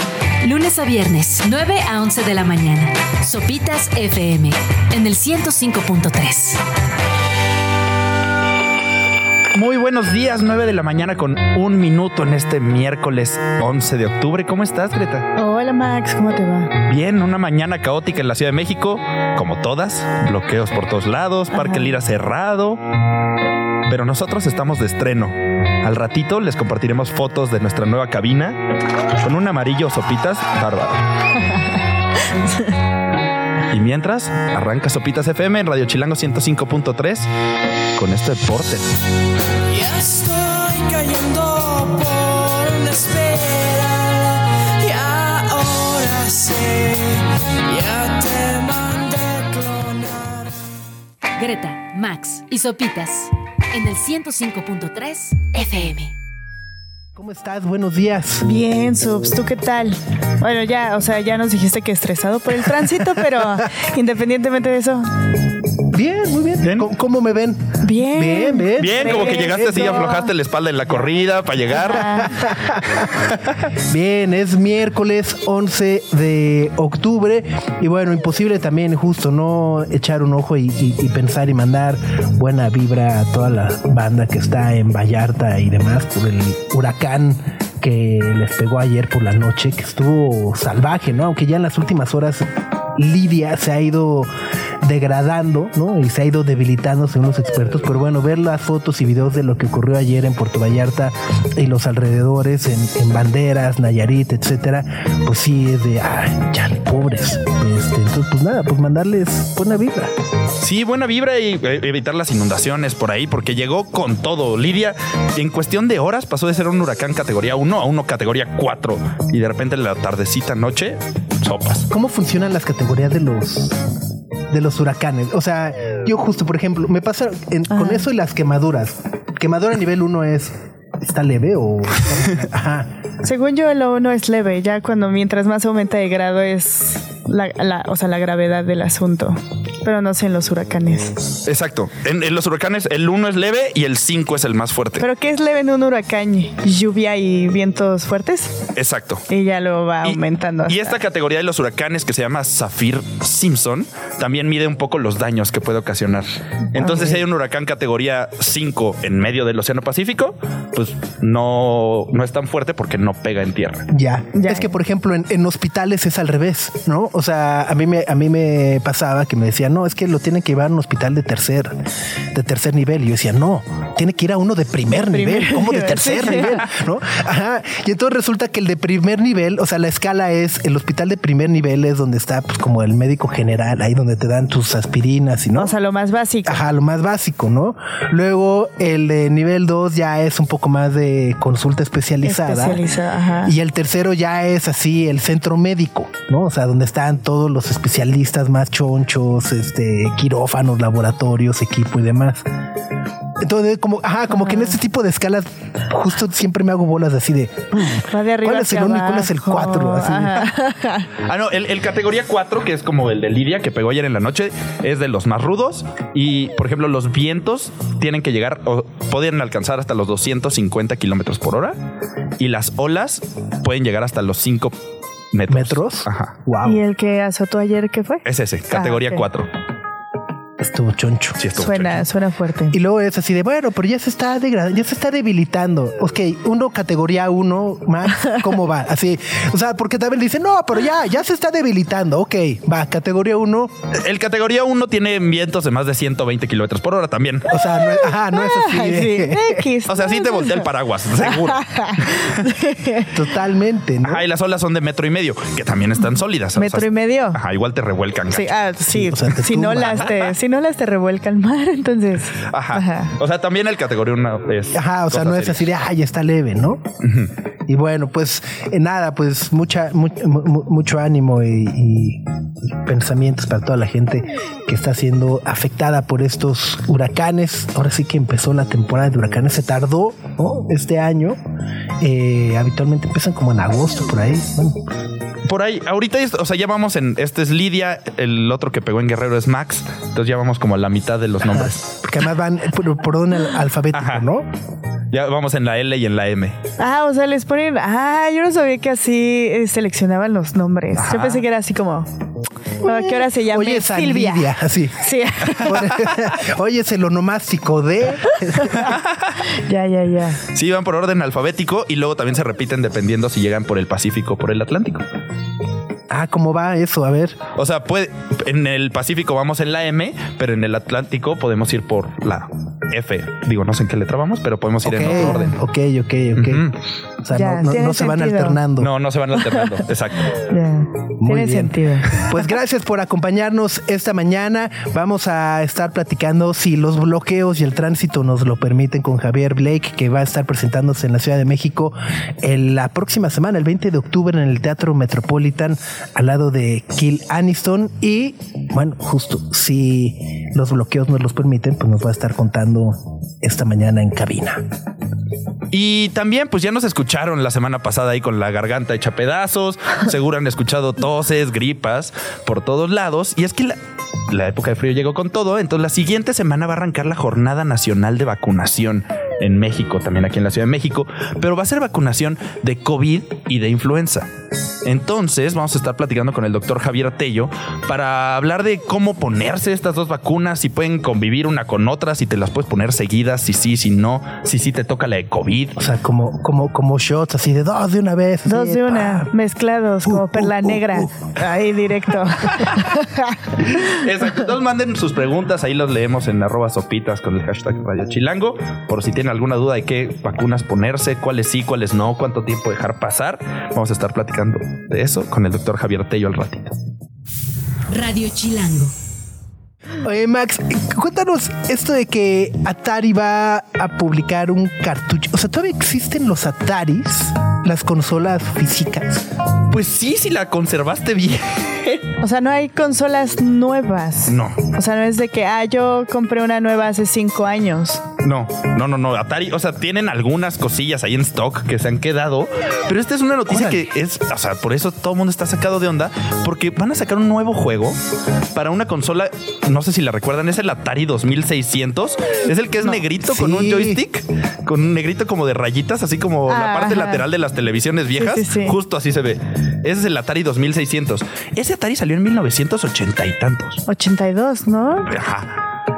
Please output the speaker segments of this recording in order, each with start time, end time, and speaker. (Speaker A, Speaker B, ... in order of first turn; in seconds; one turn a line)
Speaker A: 0.4-6.6
Speaker B: 9.5-15.3
Speaker C: 15.3-16.7
Speaker B: 16.9-22.8
Speaker C: 21.5-21.9
Speaker B: 23.9-28.6
Speaker B: 29.2-31.0
Speaker C: 32.3-32.7
Speaker B: 33.7-37.3
Speaker B: 38.0-38.9
Speaker D: 39.7-50.5
Speaker A: 51.4-56.1
Speaker E: 57.1-58.5
Speaker C: 58.4-65.1
Speaker E: 65.9-70.1
Speaker B: 66.6-66.9
Speaker C: 67.8-70.3
Speaker B: 68.8-72.3
Speaker C: 71.7-72.4
Speaker E: 72.2-94.3
Speaker E: 94.8-110.1
Speaker B: 110.6-121.9
Speaker E: 121.9-123.8
Speaker E: 124.5-132.9
Speaker C: 127.7-128.0
Speaker C: 133.2-141.1
Speaker B: 141.4-145.0
Speaker C: 145.0-148.6
Speaker B: 148.8-149.2
Speaker C: 149.3-151.0
Speaker B: 150.0-163.9
Speaker E: 156.8-157.2
Speaker E: 163.9-171.8
Speaker C: 164.3-164.7
Speaker E: 172.3-185.7
Speaker C: 174.9-176.7
Speaker C: 185.5-186.6
Speaker E: 186.4-192.8
Speaker C: 192.2-193.5
Speaker E: 193.4-202.5
Speaker E: 203.4-210.5
Speaker C: 204.4-204.7
Speaker C: 208.1-211.1
Speaker B: 211.2-221.8
Speaker B: 222.4-224.8
Speaker B: 225.3-226.3
Speaker E: 225.5-226.8
Speaker C: 226.6-229.2
Speaker B: 228.3-229.5
Speaker E: 230.6-231.4
Speaker B: 231.4-232.0
Speaker C: 231.5-232.8
Speaker E: 232.7-243.7
Speaker B: 243.9-247.6
Speaker E: 247.5-249.6
Speaker C: 247.8-250.7
Speaker B: 249.9-252.4
Speaker C: 251.3-253.1
Speaker E: 253.1-254.2
Speaker B: 254.0-258.5
Speaker C: 256.6-257.4
Speaker C: 258.3-263.1
Speaker E: 258.9-260.1
Speaker B: 262.5-265.7
Speaker E: 264.7-266.9
Speaker B: 267.0-267.3
Speaker E: 267.7-281.4
Speaker E: 282.0-284.8
Speaker B: 285.5-291.8
Speaker E: 291.5-294.5
Speaker B: 293.9-294.2
Speaker B: 295.1-296.6
Speaker C: 296.8-302.1
Speaker B: 301.0-301.4
Speaker E: 302.8-308.9
Speaker C: 302.8-304.5
Speaker C: 305.0-305.9
Speaker C: 308.6-308.9
Speaker B: 308.9-309.3
Speaker C: 309.6-310.4
Speaker B: 310.5-315.0
Speaker E: 316.1-317.4
Speaker B: 317.6-325.5
Speaker E: 324.8-326.7
Speaker B: 326.4-326.8
Speaker E: 327.2-328.9
Speaker C: 327.3-328.6
Speaker B: 328.8-330.4
Speaker C: 330.5-332.2
Speaker E: 331.2-354.6
Speaker B: 355.7-374.3
Speaker B: 374.8-385.8
Speaker E: 385.8-389.3
Speaker C: 388.4-394.0
Speaker E: 390.0-391.2
Speaker B: 393.8-406.7
Speaker A: 407.9-408.9
Speaker E: 410.0-419.3
Speaker B: 419.7-422.0
Speaker C: 422.2-428.0
Speaker B: 424.3-424.6
Speaker B: 428.2-438.0
Speaker E: 433.5-433.8
Speaker B: 438.5-453.8
Speaker E: 443.2-444.0
Speaker C: 446.5-447.2
Speaker C: 448.2-448.8
Speaker C: 453.9-455.1
Speaker B: 455.1-455.6